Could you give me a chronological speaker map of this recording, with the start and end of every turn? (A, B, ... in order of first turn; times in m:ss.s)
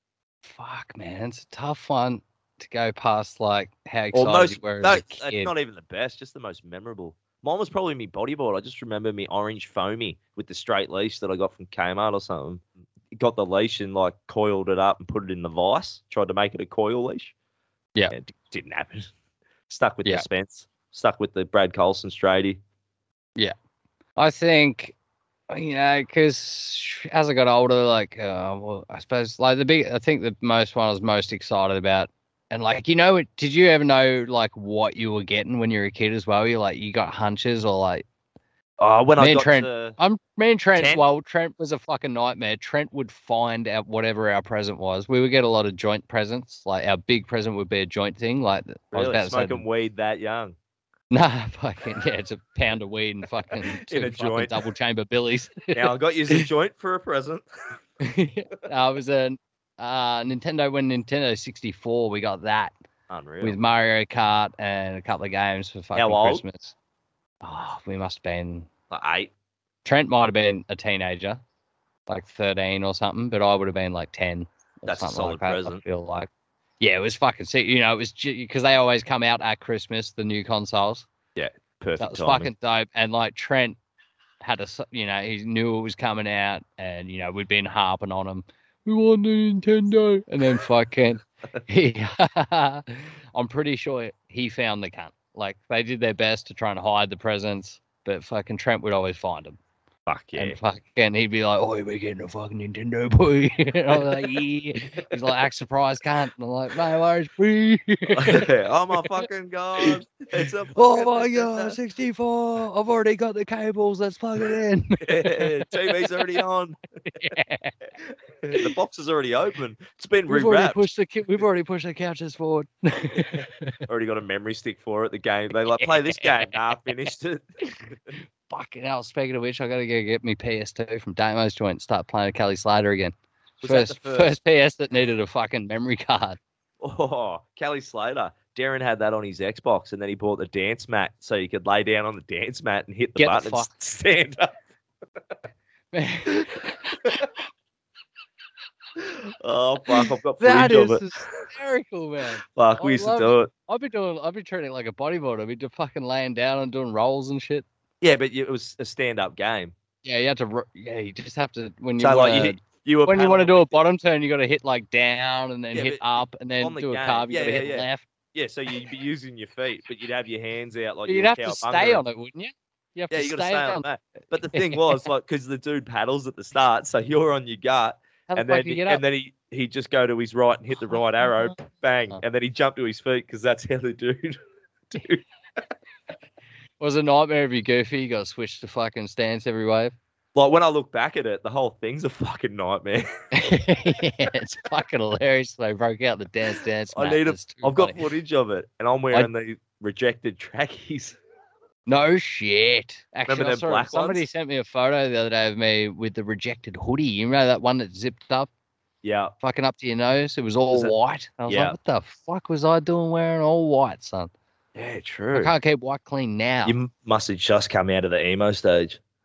0:00.4-0:05.5 A
0:04.1-0:17.3 B
0:18.1-0:19.1 B
0:19.7-0:22.6 B
0:24.2-0:24.9 A
0:25.5-0:38.0 A
0:38.8-0:40.0 B
0:39.2-0:49.6 A
0:40.8-0:41.0 B
0:48.9-0:50.6 B
0:51.1-0:56.4 A
0:53.8-0:54.6 B
0:55.7-0:57.4 B
0:58.0-1:02.7 A
1:03.1-1:03.6 B
1:03.4-1:06.7 A
1:05.9-1:06.4 B
1:07.4-1:08.7 A
1:08.9-1:09.3 B
1:09.8-1:11.4 A
1:12.1-1:16.3 A
1:14.8-1:15.8 B
1:16.8-1:21.1 A
1:21.4-1:22.5 B
1:22.0-1:23.8 A
1:24.4-1:39.6 A
1:40.1-1:40.6 B
1:40.4-1:48.5 A
1:48.1-1:51.8 B
1:50.7-1:56.4 A
1:55.0-1:56.8 B
1:57.1-1:57.7 A
1:58.4-2:00.8 B
2:00.3-2:03.7 A
2:03.3-2:07.4 B
2:05.8-2:06.5 A
2:08.5-2:16.4 A
2:13.6-2:14.4 B
2:16.8-2:24.5 B
2:23.2-2:23.7 A
2:25.9-2:27.2 A
2:29.0-2:31.0 B
2:29.9-2:37.6 A
2:32.5-2:33.5 B
2:38.0-2:39.7 B
2:40.0-2:48.1 A
2:42.0-2:43.7 B
2:45.7-2:46.0 B
2:46.6-2:52.0 B
2:51.0-2:53.8 A
2:53.1-3:04.4 B
2:54.5-2:55.0 A
2:58.3-2:59.0 A
3:04.9-3:05.2 B
3:06.8-3:09.9 A
3:10.3-3:13.1 B
3:13.3-3:18.0 A
3:16.9-3:21.2 B
3:21.9-3:28.5 A
3:23.3-3:24.2 B
3:29.0-3:29.3 B
3:29.4-3:34.3 A
3:31.5-3:31.7 B
3:34.7-3:35.5 B
3:35.3-3:36.8 A
3:36.6-3:39.0 B